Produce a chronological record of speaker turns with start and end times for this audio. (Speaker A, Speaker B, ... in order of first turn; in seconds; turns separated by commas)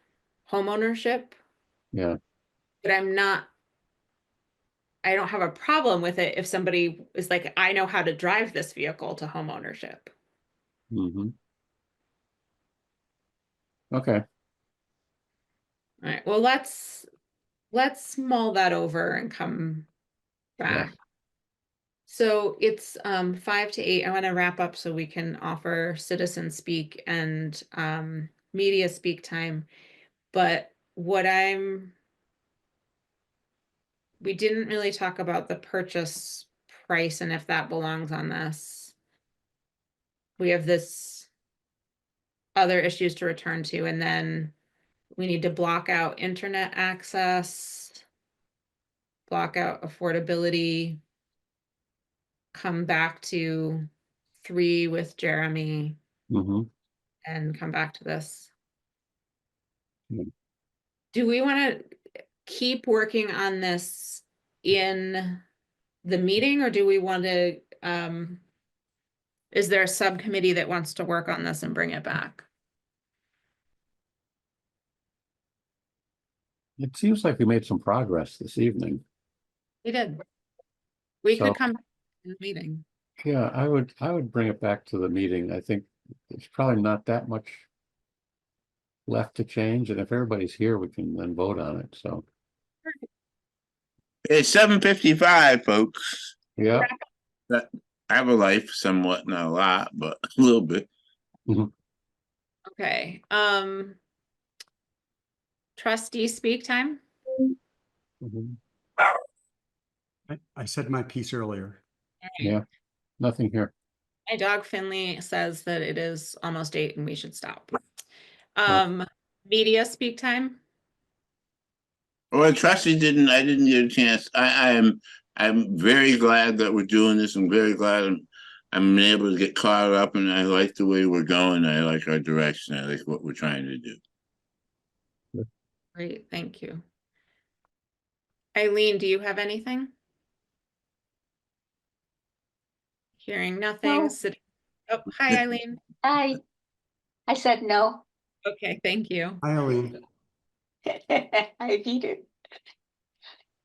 Speaker A: 0.5-1.4, Speaker A: 2.8-3.5, Speaker A: 5.0-10.1, Speaker B: 10.9-11.3, Speaker B: 13.9-14.2, Speaker A: 16.0-17.1, Speaker A: 17.7-19.9, Speaker A: 20.6-20.9, Speaker A: 22.1-29.7, Speaker A: 30.3-31.9, Speaker A: 34.2-39.0, Speaker A: 40.4-41.3, Speaker A: 42.5-44.5, Speaker A: 45.1-48.0, Speaker A: 49.3-51.0, Speaker A: 52.5-53.9, Speaker A: 54.4-56.0, Speaker B: 56.3-56.7, Speaker A: 57.2-58.5, Speaker A: 61.1-61.9, Speaker A: 62.4-65.4, Speaker A: 66.0-68.4, Speaker A: 69.5-72.5, Speaker B: 76.8-79.0, Speaker A: 79.8-80.2, Speaker A: 81.2-82.8, Speaker B: 81.3-81.6, Speaker B: 83.2-87.7, Speaker B: 89.1-92.2, Speaker C: 94.3-96.3, Speaker B: 96.6-96.9, Speaker A: 96.8-97.0, Speaker C: 97.5-100.9, Speaker A: 102.7-104.0, Speaker A: 105.8-107.0, Speaker B: 108.2-108.5, Speaker D: 110.3-111.8, Speaker A: 112.2-112.5, Speaker B: 113.2-113.7, Speaker A: 114.3-117.8, Speaker A: 118.6-120.6, Speaker C: 122.3-134.0, Speaker A: 135.9-136.8, Speaker A: 138.6-139.9, Speaker A: 143.2-144.4, Speaker E: 143.8-144.1, Speaker A: 144.9-145.8, Speaker E: 146.0-146.4, Speaker E: 147.3-148.0, Speaker A: 148.5-149.4, Speaker D: 149.4-150.0, Speaker E: 150.9-152.3